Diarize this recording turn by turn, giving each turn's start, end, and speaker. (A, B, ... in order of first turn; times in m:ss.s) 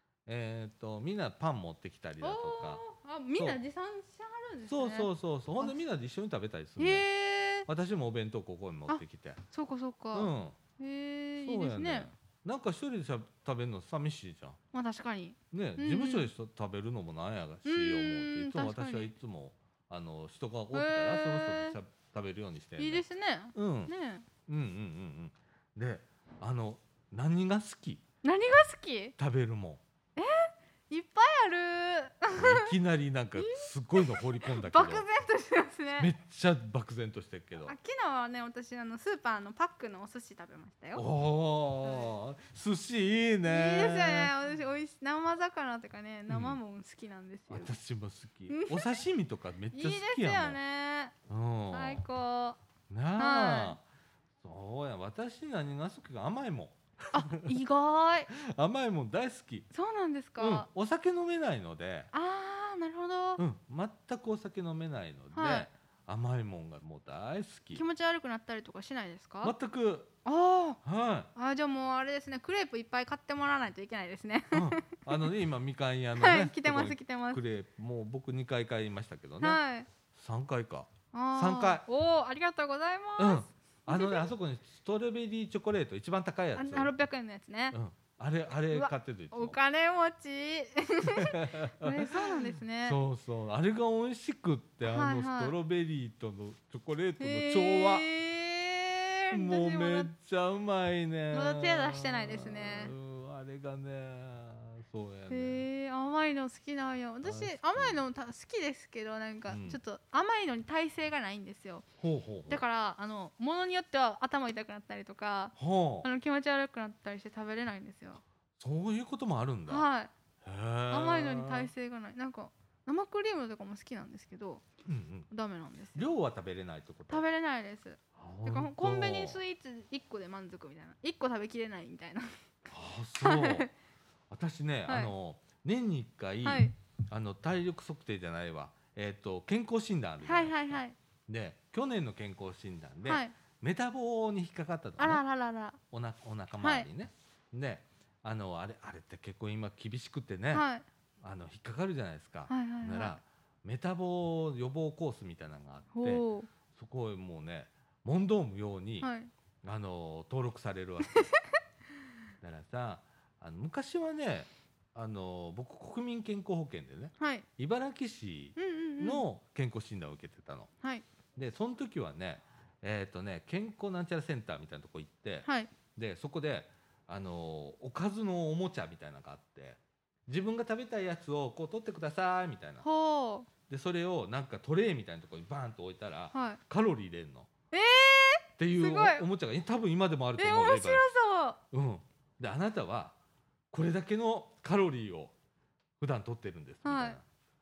0:00.3-0:02.8 A
0:02.2-0:05.8 B
0:04.7-0:07.0 A
0:06.8-0:07.7 B
0:07.6-0:09.4 A
0:08.9-0:12.1 B
0:10.1-0:10.6 A
0:11.4-0:14.6 A
0:14.7-0:16.3 B
0:15.5-0:23.0 A
0:17.6-0:19.1 B
0:20.7-0:21.8 B
0:22.8-0:24.3 B
0:23.5-0:23.9 A
0:24.5-0:28.0 A
0:28.2-0:29.2 B
0:29.2-0:29.8 A
0:30.2-0:32.7 B
0:32.3-0:35.0 A
0:33.4-0:36.1 B
0:36.0-0:37.7 A
0:37.6-0:41.0 B
0:40.9-0:44.3 A
0:41.8-0:42.1 B
0:43.4-0:47.8 B
0:46.3-0:46.6 A
0:47.5-0:50.6 A
0:48.5-0:49.0 B
0:49.7-0:51.1 B
0:51.3-0:52.0 A
0:51.7-0:52.6 B
0:52.9-0:53.8 A
0:53.2-0:53.8 B
0:54.4-0:57.5 A
0:57.1-0:58.3 B
0:58.3-0:59.7 A
0:59.7-1:00.7 B
1:00.4-1:02.1 A
1:02.1-1:03.4 B
1:03.4-1:07.8 A
1:05.3-1:05.7 B
1:07.7-1:09.5 B
1:09.4-1:10.1 A
1:10.2-1:10.8 B
1:10.8-1:11.3 A
1:11.3-1:14.9 B
1:14.5-1:19.6 A
1:16.2-1:17.4 B
1:19.4-1:19.9 B
1:20.1-1:21.8 A
1:21.1-1:24.3 B
1:23.2-1:26.9 A
1:26.5-1:27.8 B
1:27.7-1:29.6 A
1:28.7-1:33.0 B
1:31.1-1:38.1 A
1:34.8-1:35.5 B
1:37.2-1:40.1 B
1:39.3-1:45.7 A
1:41.3-1:42.9 B
1:45.3-1:51.8 B
1:47.2-1:48.0 A
1:49.5-1:49.8 A
1:52.0-1:52.6 A
1:52.5-1:58.2 B
1:55.6-1:56.1 A
1:58.6-1:59.8 A
1:59.7-2:00.1 B
2:00.4-2:01.7 A
2:00.9-2:04.6 B
2:04.8-2:05.3 A
2:05.3-2:06.0 B
2:05.9-2:07.2 A
2:07.1-2:12.3 B
2:08.2-2:09.4 A
2:12.7-2:13.7 A
2:13.2-2:13.7 B
2:14.3-2:25.2 A
2:14.9-2:15.1 B
2:16.4-2:16.7 B
2:20.2-2:21.0 B
2:23.0-2:23.3 B
2:25.0-2:25.8 B
2:25.9-2:30.6 A
2:26.6-2:26.9 B
2:30.5-2:30.8 B
2:31.2-2:39.1 A
2:32.5-2:33.2 B
2:35.9-2:36.5 B
2:39.0-2:39.3 B
2:39.6-2:41.3 A
2:42.4-2:50.7 A
2:47.2-2:47.5 B
2:48.6-2:49.2 B
2:51.4-3:02.8 A
2:55.4-2:55.7 B
3:02.8-3:03.5 B
3:03.7-3:07.5 A
3:06.3-3:06.6 B
3:07.7-3:09.2 B
3:08.6-3:11.1 A
3:10.4-3:11.6 B
3:11.7-3:13.2 A
3:13.7-3:15.3 A
3:16.0-3:17.2 A
3:16.8-3:17.2 B